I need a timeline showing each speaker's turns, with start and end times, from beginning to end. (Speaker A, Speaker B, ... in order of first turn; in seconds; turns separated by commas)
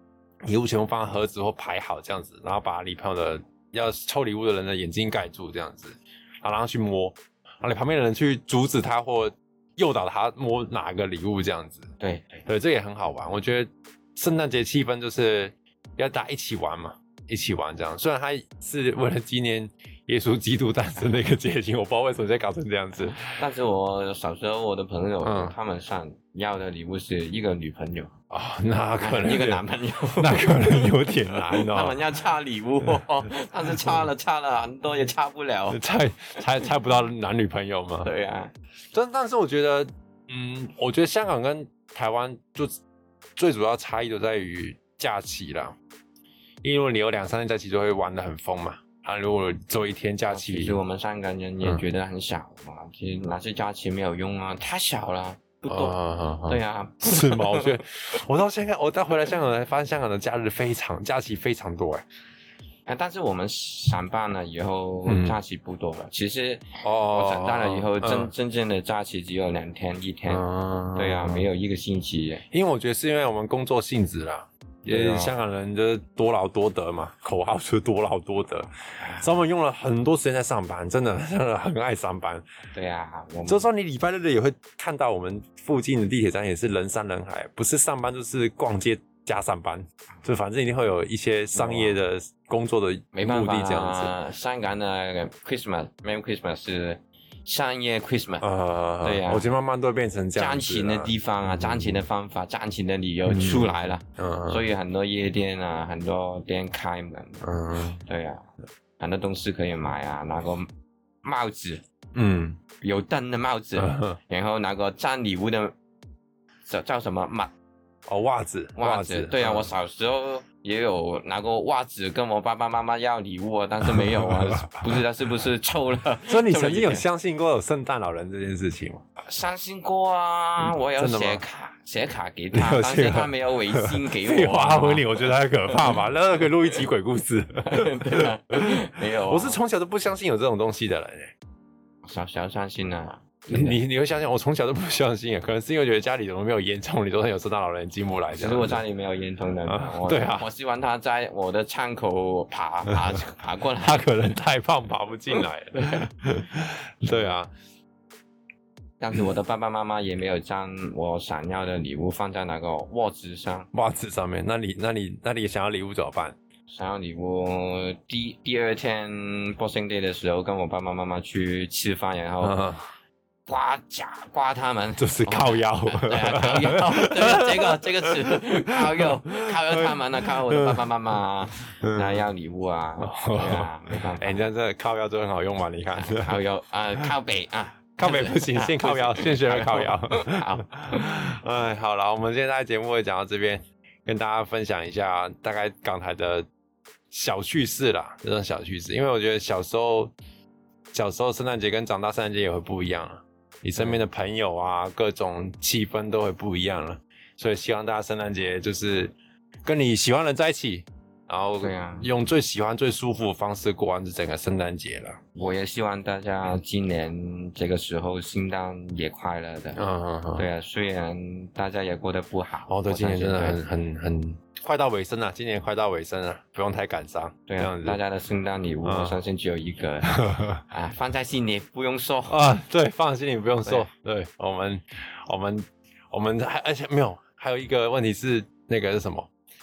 Speaker A: 0.5-11.9, Speaker B: 12.0-12.4, Speaker A: 12.5-23.3, Speaker B: 23.3-28.1, Speaker A: 25.2-25.6, Speaker A: 28.3-29.6, Speaker B: 29.0-35.8, Speaker A: 30.1-32.0, Speaker A: 35.7-38.1, Speaker B: 38.0-38.5, Speaker A: 38.9-42.8, Speaker A: 43.4-45.8, Speaker A: 46.6-50.8, Speaker B: 50.3-57.8, Speaker A: 55.7-62.0, Speaker B: 62.9-70.5, Speaker A: 65.1-65.4, Speaker A: 66.8-68.3, Speaker A: 70.3-71.5, Speaker B: 71.0-72.4, Speaker A: 72.5-82.4, Speaker B: 74.9-75.3, Speaker B: 79.0-79.4, Speaker B: 82.7-83.7, Speaker A: 83.5-94.1, Speaker B: 91.5-92.0, Speaker B: 93.1-98.5, Speaker A: 98.4-102.0, Speaker B: 99.0-99.5, Speaker B: 100.3-107.4, Speaker A: 103.3-104.7, Speaker A: 107.4-108.0, Speaker B: 108.0-108.5, Speaker B: 109.0-110.7, Speaker B: 111.2-111.8, Speaker A: 112.2-112.6, Speaker B: 112.8-115.7, Speaker A: 113.8-114.2, Speaker B: 116.7-117.5, Speaker A: 118.1-119.7, Speaker B: 118.8-127.0, Speaker A: 123.8-125.0, Speaker A: 126.3-129.0, Speaker B: 129.2-136.0, Speaker A: 130.7-131.4, Speaker A: 132.5-141.3, Speaker B: 137.7-139.6, Speaker B: 142.0-143.8, Speaker A: 143.5-148.8, Speaker B: 148.3-154.1, Speaker A: 149.7-150.5, Speaker A: 152.9-153.2, Speaker A: 153.8-157.5, Speaker B: 155.3-156.0, Speaker B: 159.0-163.7, Speaker A: 163.7-166.4, Speaker B: 166.7-172.7, Speaker A: 172.4-172.8, Speaker B: 173.5-184.4, Speaker A: 175.0-180.9, Speaker A: 181.8-182.3, Speaker A: 183.0-186.4, Speaker B: 185.9-191.4, Speaker A: 188.0-196.5, Speaker A: 197.1-200.1, Speaker A: 200.9-215.2, Speaker B: 211.6-212.1, Speaker B: 215.3-219.8, Speaker A: 219.8-220.5, Speaker B: 220.4-223.6, Speaker A: 222.7-228.0, Speaker B: 227.5-232.4, Speaker A: 228.8-229.2, Speaker A: 230.1-230.6, Speaker A: 232.3-239.3